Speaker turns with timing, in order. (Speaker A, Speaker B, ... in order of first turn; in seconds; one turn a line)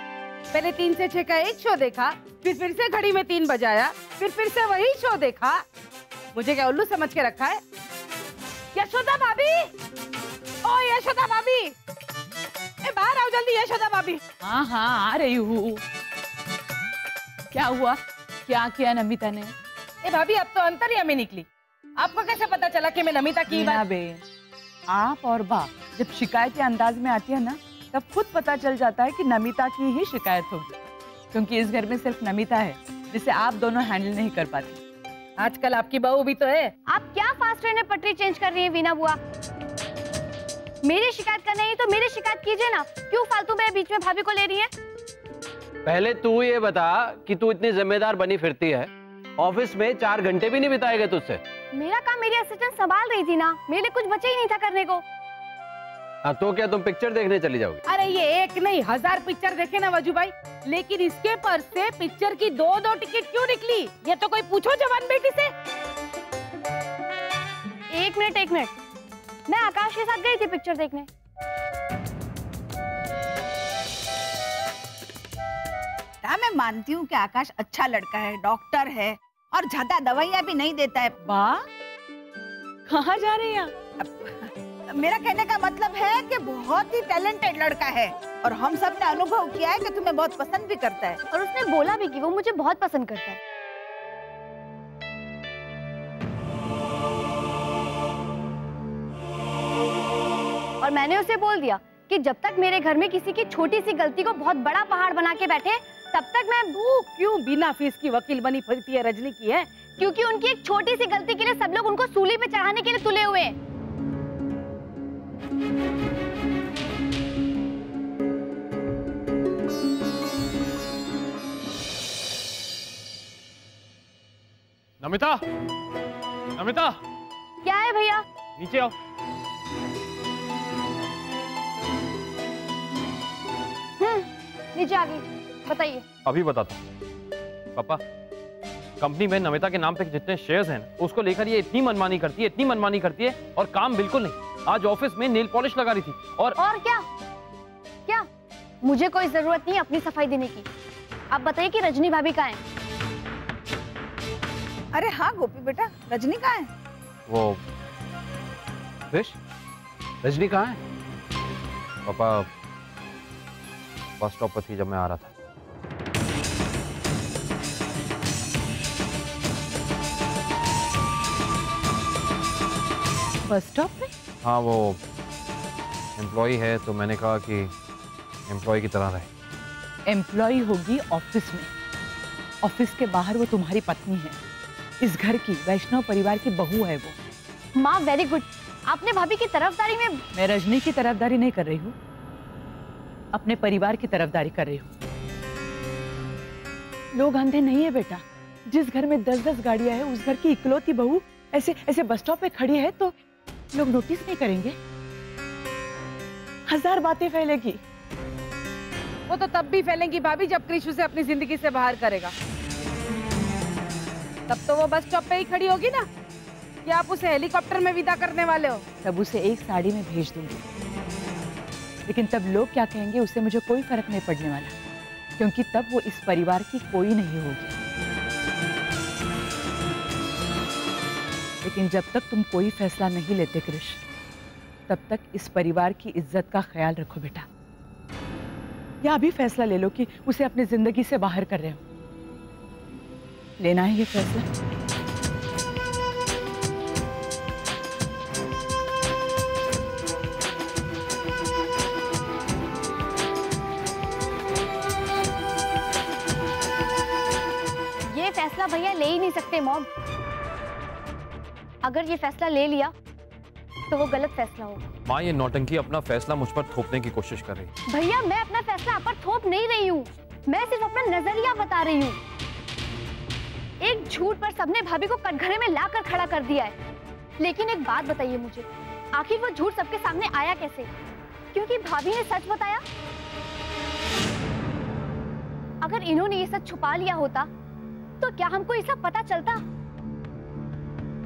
Speaker A: 0.5-5.6
Speaker A: 6.3-7.6
Speaker A: 8.7-9.7
Speaker A: 10.6-11.7
Speaker A: 12.8-14.2
Speaker B: 14.4-15.8
Speaker B: 17.5-19.6
Speaker A: 20.0-21.5
Speaker A: 22.0-23.8
Speaker B: 23.5-24.2
Speaker B: 24.9-30.8
Speaker B: 31.3-34.8
Speaker A: 35.4-36.7
Speaker C: 36.9-39.2
Speaker C: 40.8-44.7
Speaker D: 45.8-51.4
Speaker C: 51.7-55.0
Speaker D: 56.2-57.8
Speaker A: 57.9-65.5
Speaker C: 67.9-68.7
Speaker C: 69.5-71.1
Speaker E: 76.2-81.2
Speaker B: 81.2-81.6
Speaker B: 82.9-83.7
Speaker E: 84.0-91.2
Speaker C: 91.3-93.4
Speaker C: 100.8-106.9
Speaker A: 106.8-109.7
Speaker C: 110.0-113.5
Speaker F: 125.0-125.4
Speaker F: 126.6-127.0
Speaker C: 127.6-128.2
Speaker F: 128.6-128.9
Speaker C: 134.0-136.0
Speaker F: 136.2-136.8
Speaker F: 137.7-138.0
Speaker F: 139.0-146.6
Speaker C: 146.6-147.0
Speaker C: 148.8-150.7
Speaker C: 151.3-152.6
Speaker E: 154.9-156.7
Speaker F: 157.3-157.6
Speaker D: 159.1-159.4
Speaker D: 160.2-160.8
Speaker F: 162.1-162.5
Speaker F: 164.2-165.3
Speaker B: 173.5-174.1
Speaker F: 174.4-175.0
Speaker F: 176.2-177.7
Speaker F: 178.5-179.3
Speaker B: 180.1-181.7
Speaker B: 182.6-184.4
Speaker B: 185.0-187.2
Speaker C: 187.8-190.2
Speaker B: 190.3-191.9
Speaker B: 193.3-194.9
Speaker B: 197.2-203.1
Speaker B: 203.7-204.8
Speaker B: 206.7-207.8
Speaker A: 209.3-212.3
Speaker A: 214.5-216.1
Speaker A: 216.8-218.8
Speaker B: 219.0-220.6
Speaker B: 222.1-224.7
Speaker B: 225.4-227.8
Speaker B: 231.6-234.0
Speaker B: 234.9-237.5
Speaker B: 239.0-241.8
Speaker B: 243.6-244.4
Speaker C: 258.1-259.9
Speaker C: 261.8-262.9
Speaker C: 263.9-264.8
Speaker F: 265.1-267.7
Speaker C: 267.9-272.2
Speaker C: 273.8-276.7
Speaker C: 277.4-280.9
Speaker C: 281.5-282.8
Speaker C: 285.8-287.5
Speaker C: 288.2-289.6